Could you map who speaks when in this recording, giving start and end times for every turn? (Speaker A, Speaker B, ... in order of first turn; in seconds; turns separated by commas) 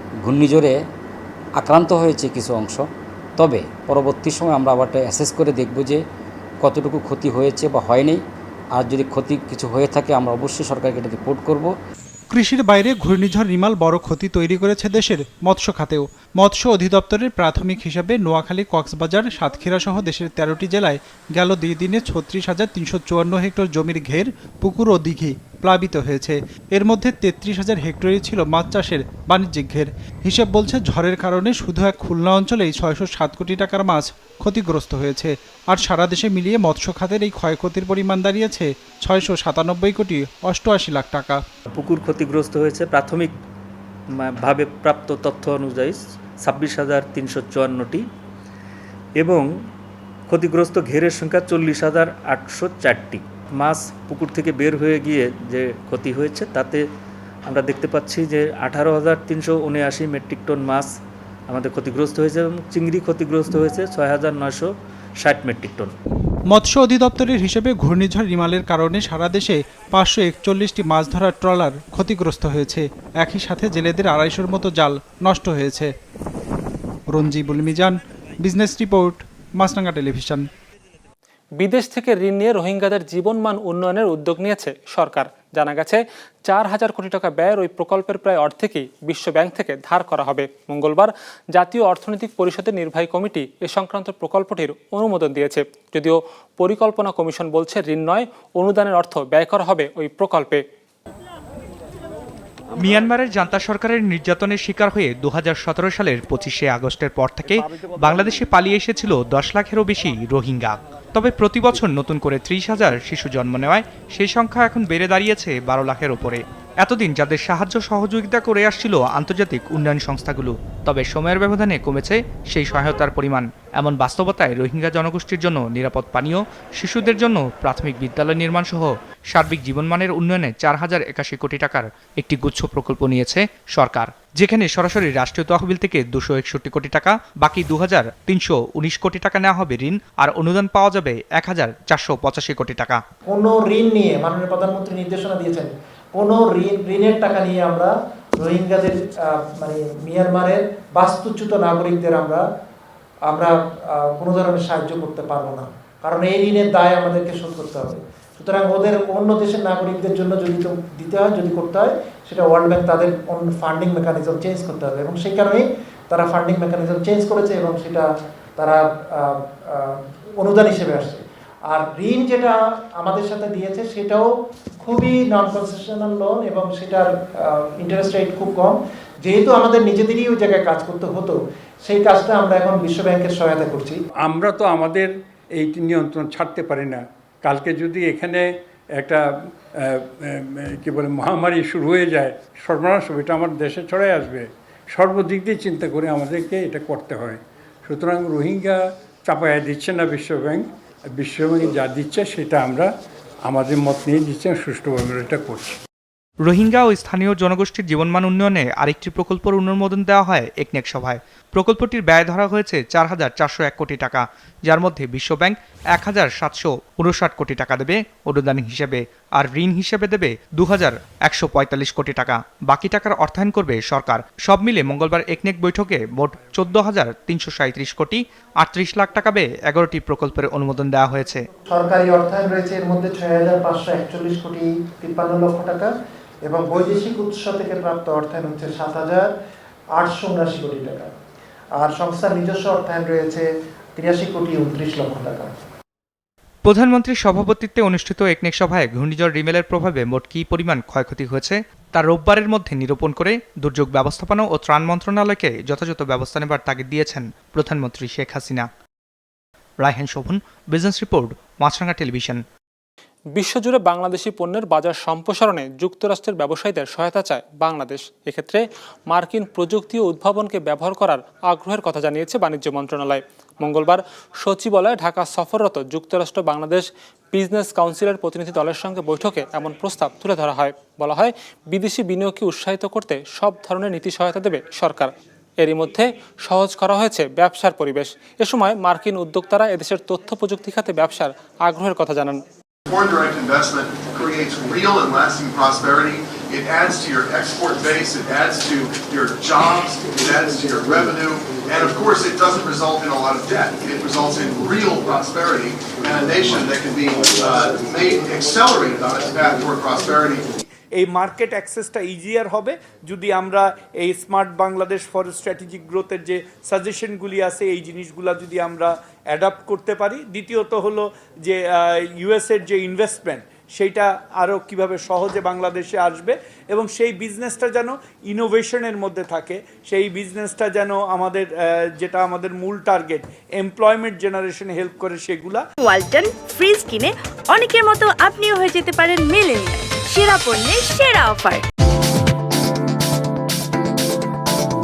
Speaker A: 0.2-0.7, Speaker A: 1.6-2.7, Speaker A: 3.4-5.9, Speaker A: 6.7-8.1, Speaker A: 8.8-11.7, Speaker B: 12.3-41.4, Speaker C: 41.7-43.3, Speaker C: 44.1-48.0, Speaker C: 49.2-49.5, Speaker C: 50.3-56.9, Speaker C: 57.5-60.9, Speaker C: 61.5-65.9, Speaker B: 66.5-75.9, Speaker B: 77.1-80.5, Speaker D: 81.6-100.6, Speaker E: 102.8-143.0, Speaker F: 143.3-152.4, Speaker F: 153.3-174.3, Speaker F: 174.8-184.0, Speaker G: 184.2-188.4, Speaker G: 189.0-189.2, Speaker G: 190.6-202.9, Speaker G: 203.4-205.7, Speaker E: 206.4-231.4, Speaker F: 231.7-235.9, Speaker F: 236.4-239.3, Speaker F: 239.9-241.1, Speaker F: 241.8-245.5, Speaker E: 246.6-258.7, Speaker E: 259.8-262.4, Speaker D: 263.3-292.4, Speaker H: 292.9-310.6, Speaker I: 311.0-331.5, Speaker I: 332.0-335.6, Speaker J: 335.8-341.6